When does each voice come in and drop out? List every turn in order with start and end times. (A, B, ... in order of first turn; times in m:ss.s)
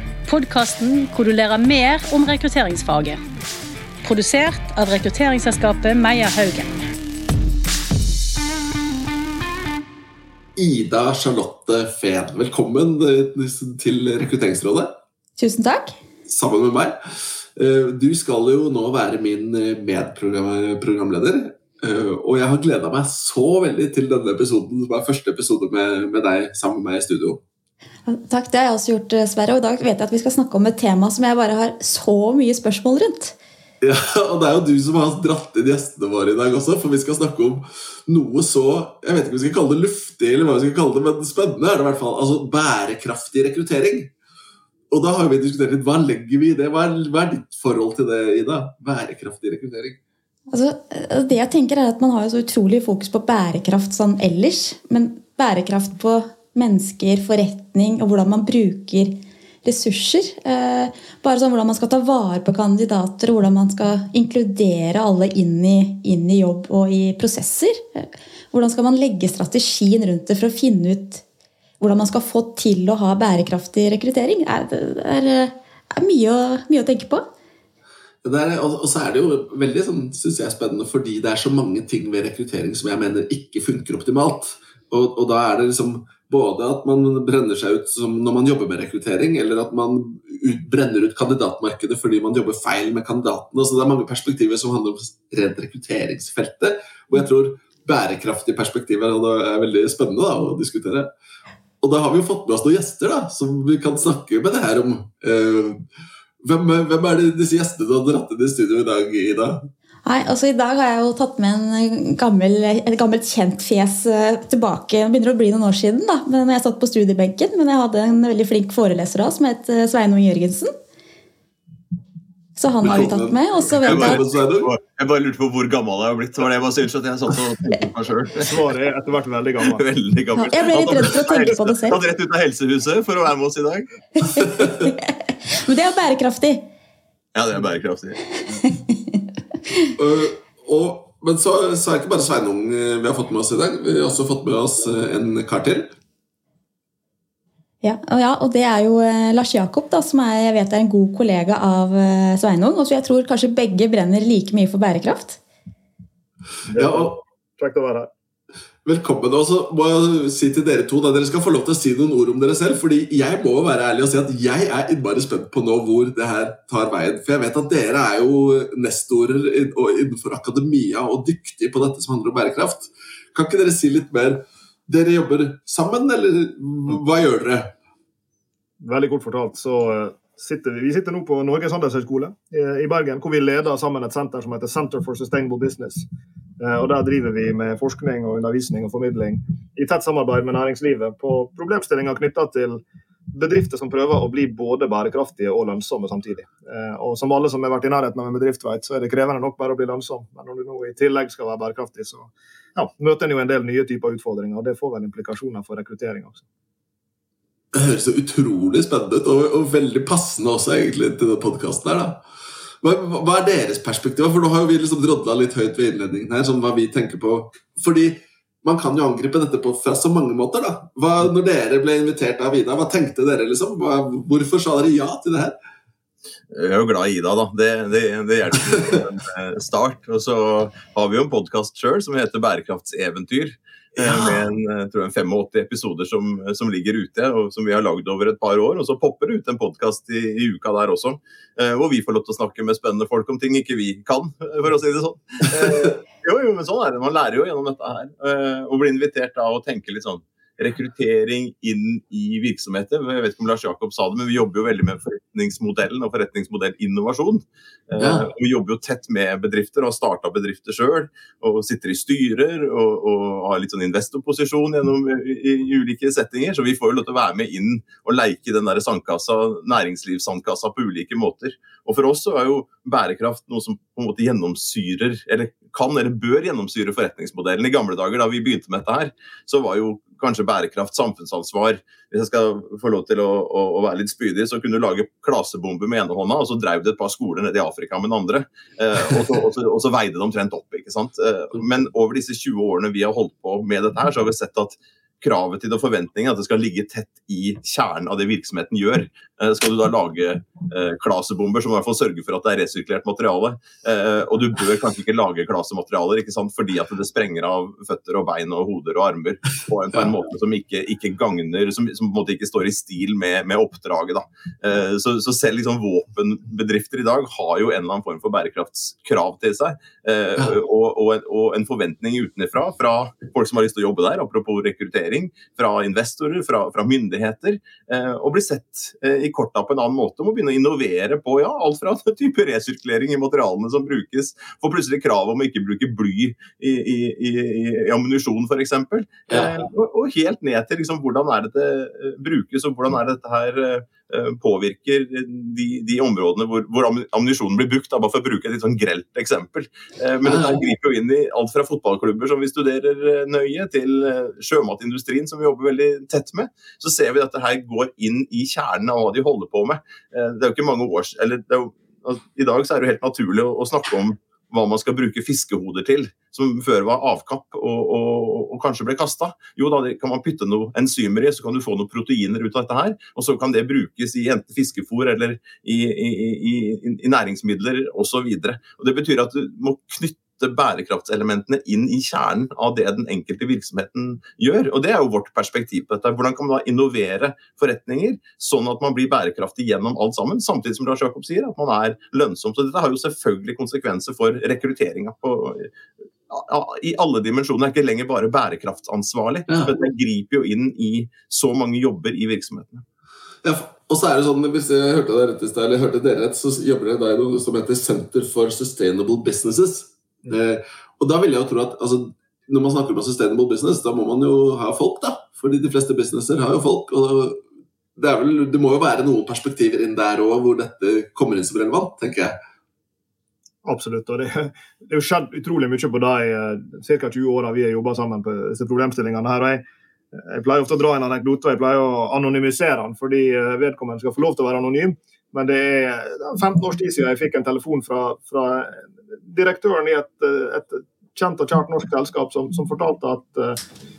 0:00.2-0:03.2 A
0:04.0-0:06.7 A
0:10.6-0:15.0 B
0:15.4-0:15.9 C
0:16.3-0:27.4 B
0:28.1-0:33.4 C
0:33.8-0:44.1 B
0:44.9-0:50.0 B
0:50.5-1:11.2 C
1:11.8-1:17.2 C
1:18.2-1:41.1 B
1:41.8-1:45.8 B
1:46.4-1:49.7 B
1:50.0-2:00.7 C
2:02.6-2:04.2 C
2:02.8-2:04.7 B
2:03.8-2:08.5 D
2:08.4-2:09.8 E
2:09.6-2:13.9 D
2:10.4-2:12.0 C
2:14.2-2:16.6 C
2:17.4-2:18.6 D
2:18.6-2:19.9 C
2:20.0-2:25.9 B
2:27.8-2:35.4 C
2:36.7-2:37.2 B
2:36.7-2:38.1 E
2:38.8-2:57.7 B
2:58.8-3:06.1 E
3:06.6-3:26.4 E
3:27.7-3:32.2 B
3:32.8-3:45.6 B
3:46.5-6:35.7 D
3:54.0-3:54.5 B
4:18.0-4:18.3 B
5:39.3-5:39.5 B
5:50.2-5:50.6 B
6:36.3-6:42.8 D
6:39.5-6:39.7 B
6:43.4-6:57.4 B
6:58.0-7:02.4 B
7:03.6-7:23.6 E